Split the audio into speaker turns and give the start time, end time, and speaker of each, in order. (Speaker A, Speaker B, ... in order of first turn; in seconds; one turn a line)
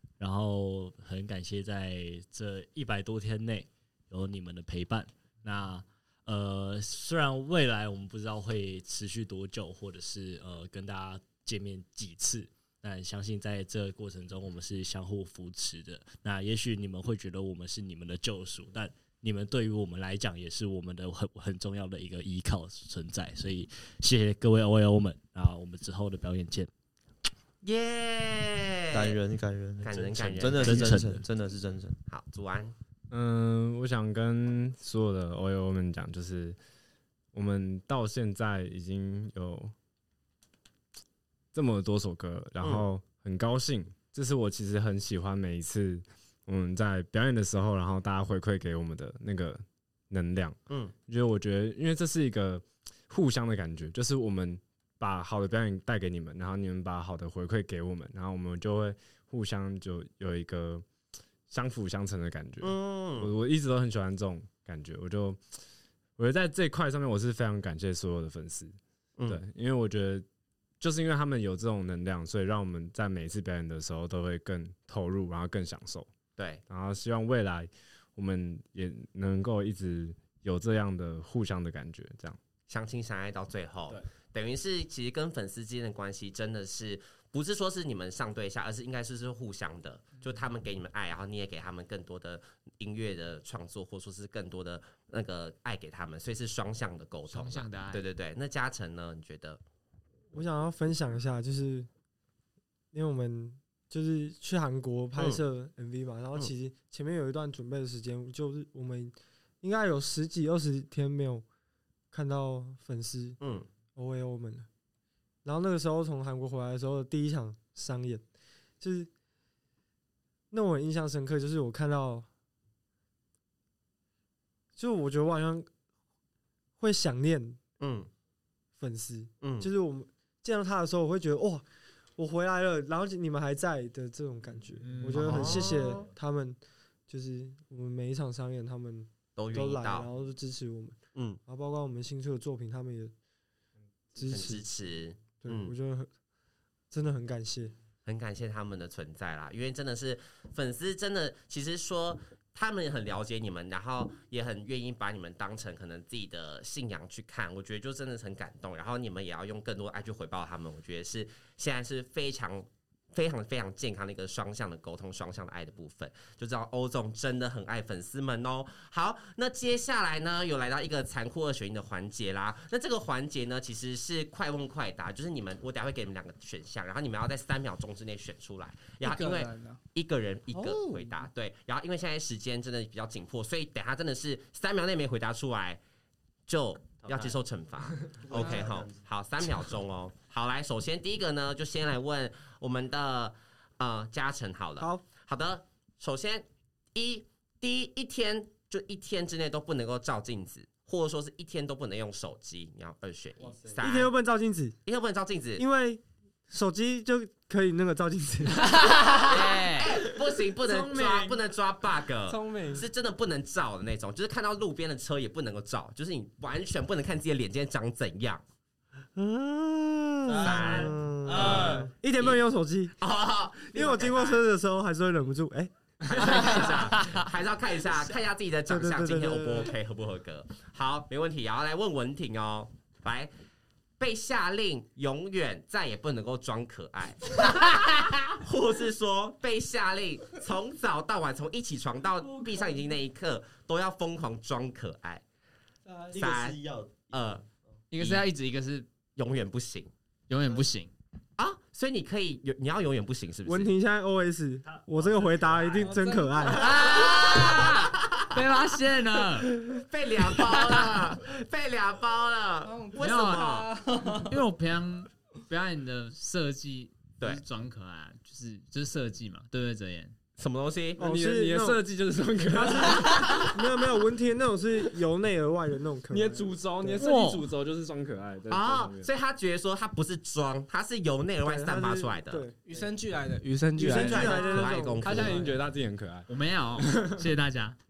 Speaker A: 0.2-26.7
Speaker B: 27.6-29.2
Speaker C: 28.9-32.0
Speaker B: 29.8-31.1
Speaker A: 29.9-31.2
Speaker B: 32.1-32.8
Speaker D: 33.1-36.6
Speaker D: 37.3-39.7
Speaker D: 41.5-60.8
Speaker B: 42.6-42.9
Speaker D: 61.5-65.4
Speaker B: 62.6-63.3
Speaker D: 66.2-68.8
Speaker D: 69.3-70.2
Speaker D: 70.8-76.1
Speaker B: 76.4-76.6
Speaker D: 76.7-82.4
Speaker B: 82.7-99.6
Speaker E: 97.3-98.0
Speaker F: 100.3-101.9
Speaker F: 102.9-111.4
Speaker B: 105.2-105.4
Speaker F: 112.1-113.4
Speaker B: 113.4-113.7
Speaker F: 113.9-114.7
Speaker F: 115.4-118.2
Speaker F: 118.8-119.1
Speaker F: 120.5-122.3
Speaker F: 124.8-125.7
Speaker F: 126.8-127.6
Speaker B: 127.8-128.1
Speaker F: 128.8-131.6
Speaker B: 129.4-129.7
Speaker F: 132.2-143.1
Speaker B: 135.1-136.1
Speaker B: 139.3-140.1
Speaker B: 141.1-141.4
Speaker F: 144.1-144.6
Speaker B: 144.2-145.7
Speaker F: 145.4-146.1
Speaker F: 146.9-147.7
Speaker B: 148.1-185.8
Speaker G: 179.0-179.8
Speaker B: 186.5-204.1
Speaker C: 188.2-189.0
Speaker F: 203.8-204.8
Speaker B: 204.8-205.6
Speaker F: 205.6-208.8
Speaker E: 208.8-210.0
Speaker B: 209.1-218.4
Speaker D: 210.6-211.4
Speaker G: 212.3-212.8
Speaker F: 219.2-222.9
Speaker C: 220.2-221.8
Speaker B: 220.4-222.4
Speaker B: 223.0-224.4
Speaker F: 223.7-226.4
Speaker B: 226.0-233.3
Speaker F: 228.7-229.7
Speaker B: 234.0-245.2
Speaker G: 245.9-246.1
Speaker C: 246.1-247.3
Speaker B: 246.1-246.6
Speaker B: 247.1-247.4
Speaker E: 247.9-248.9
Speaker B: 247.9-248.2
Speaker B: 249.2-249.9
Speaker E: 250.3-250.9
Speaker B: 251.4-253.7
Speaker F: 253.4-256.7
Speaker A: 255.4-255.7
Speaker G: 255.8-256.9
Speaker E: 256.5-259.5
Speaker B: 256.5-258.3
Speaker B: 259.5-263.7
Speaker E: 260.4-260.8
Speaker G: 262.6-264.4
Speaker E: 263.0-270.1
Speaker B: 270.4-271.0
Speaker D: 271.0-273.5
Speaker F: 271.0-271.8
Speaker F: 272.5-277.0
Speaker B: 273.1-273.4
Speaker D: 276.1-279.1
Speaker E: 277.0-277.5
Speaker B: 278.5-282.4
Speaker F: 281.4-282.6
Speaker G: 282.6-285.6
Speaker F: 283.8-285.2
Speaker B: 283.8-285.4
Speaker D: 285.0-287.2
Speaker E: 286.3-287.8